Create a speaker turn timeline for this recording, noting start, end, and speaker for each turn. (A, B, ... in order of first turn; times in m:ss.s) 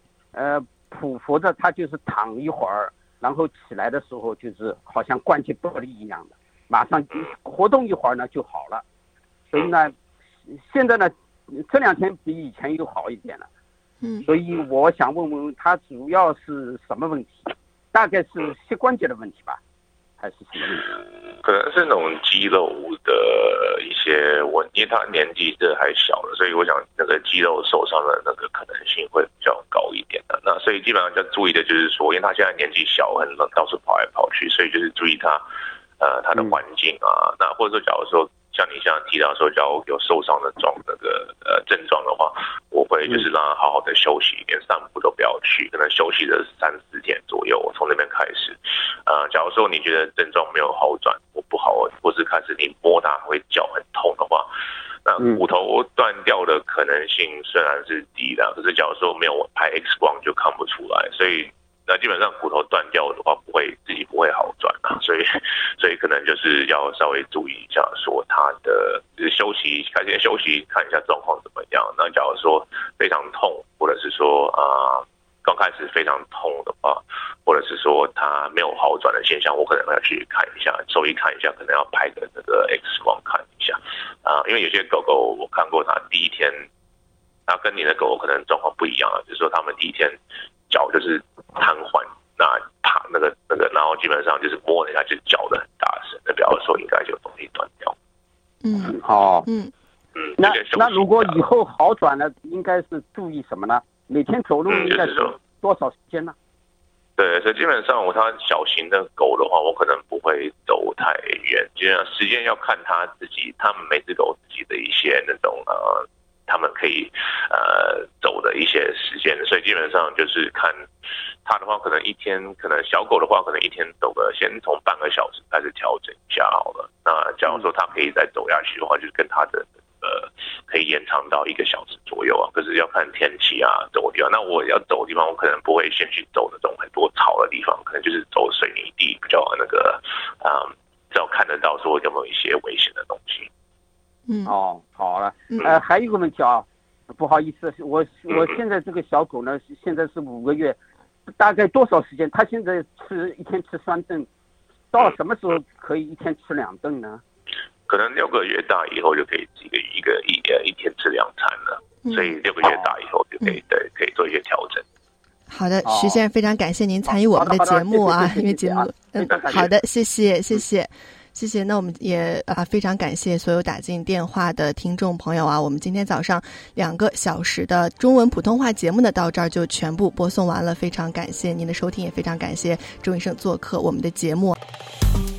0:00.3-0:08.8 A
0:09.5-0:10.0 A
0:10.5-0:13.5 A
0:14.2-0:17.3 A
0:17.9-0:19.6 A
0:20.2-0:21.0 A
0:21.4-0:35.4 B
0:36.0-0:54.5 B
0:55.0-1:26.7 B
1:27.5-1:30.2 B
1:30.7-1:38.0 B
1:38.6-1:39.7 C
1:38.8-1:39.5 A
1:40.2-1:41.4 B
1:40.4-1:46.4 A
1:44.7-1:45.4 B
1:47.2-2:00.9 B
2:01.4-2:23.5 B
2:24.3-2:24.5 C
2:24.5-2:30.8 A
2:31.4-2:34.3 A
2:34.9-2:37.2 A
2:37.9-2:44.8 B
2:42.0-2:42.4 C
2:42.6-2:42.9 A
2:45.5-3:04.6 C
2:45.8-2:46.2 A
2:47.0-2:49.7 A
2:49.3-2:49.6 B